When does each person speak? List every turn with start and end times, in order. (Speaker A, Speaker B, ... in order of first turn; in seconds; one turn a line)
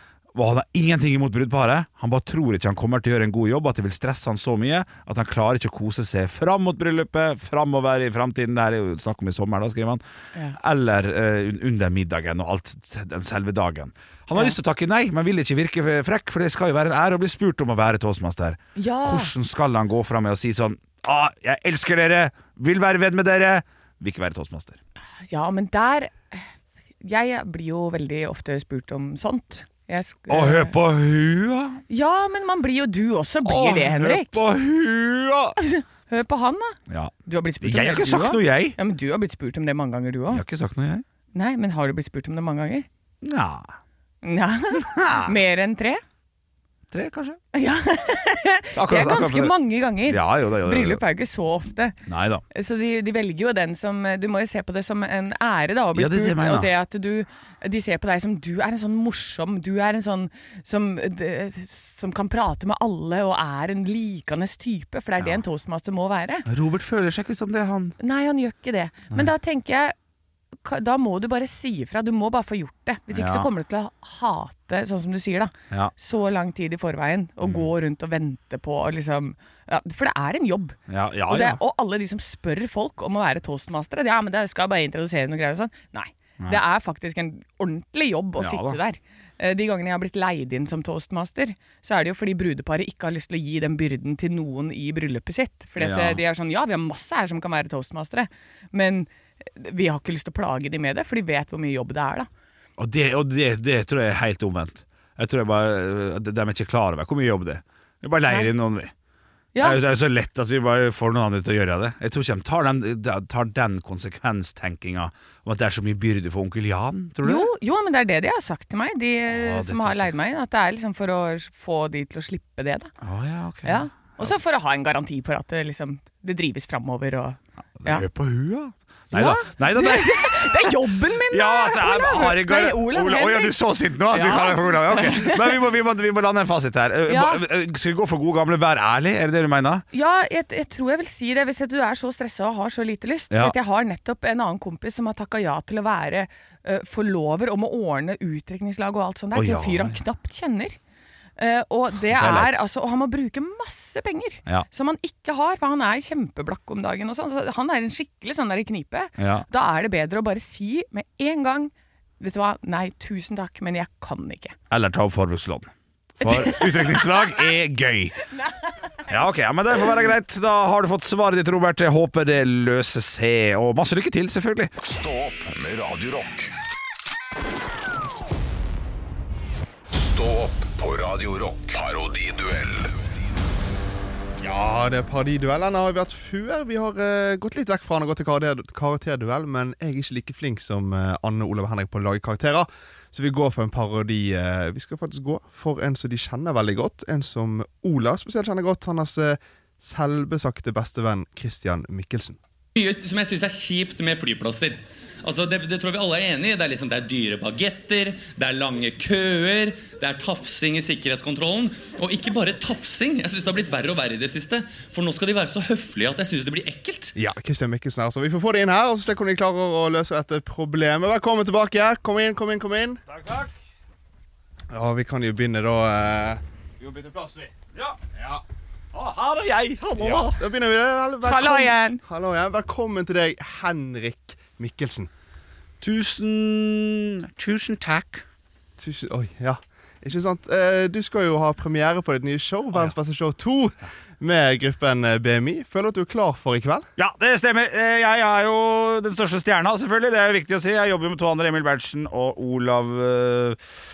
Speaker A: 0.3-10.0
Speaker A: 10.5-24.8
Speaker B: 18.8-19.3
Speaker B: 25.2-26.5
Speaker B: 27.0-30.8
Speaker A: 30.3-31.8
Speaker B: 31.9-34.4
Speaker A: 33.4-35.6
Speaker B: 35.6-40.4
Speaker A: 36.9-38.8
Speaker A: 40.3-41.0
Speaker B: 41.3-42.9
Speaker A: 43.2-43.8
Speaker B: 44.2-46.0
Speaker A: 44.8-45.3
Speaker A: 46.9-47.4
Speaker B: 47.5-66.5
Speaker A: 48.7-49.5
Speaker A: 50.0-51.0
Speaker A: 52.1-52.4
Speaker A: 55.9-56.7
Speaker A: 66.5-68.0
Speaker B: 68.0-70.0
Speaker B: 70.6-102.3
Speaker A: 73.1-73.5
Speaker A: 77.4-77.7
Speaker A: 80.9-81.6
Speaker A: 88.4-88.8
Speaker A: 95.8-96.2
Speaker A: 102.8-108.9
Speaker B: 109.5-109.8
Speaker A: 109.6-117.5
Speaker B: 117.2-122.9
Speaker A: 119.3-120.1
Speaker A: 123.0-124.3
Speaker B: 123.7-128.1
Speaker A: 127.8-139.8
Speaker B: 129.1-135.6
Speaker B: 137.1-137.4
Speaker B: 139.9-150.8
Speaker A: 143.3-143.6
Speaker A: 149.3-150.0
Speaker B: 151.4-164.6
Speaker A: 152.1-152.6
Speaker A: 159.2-159.5
Speaker A: 164.7-168.2
Speaker B: 166.2-167.3
Speaker B: 168.3-169.1
Speaker A: 169.1-174.7
Speaker C: 174.8-176.5
Speaker C: 179.9-182.9
Speaker D: 184.4-202.4
Speaker E: 202.8-217.2
Speaker D: 217.2-223.0
Speaker A: 223.1-223.5
Speaker D: 224.7-227.5
Speaker A: 227.7-228.0
Speaker D: 228.1-228.4
Speaker A: 228.9-230.4
Speaker D: 230.0-235.1
Speaker B: 231.2-232.0
Speaker A: 235.8-238.2
Speaker D: 238.8-246.9
Speaker A: 247.0-253.6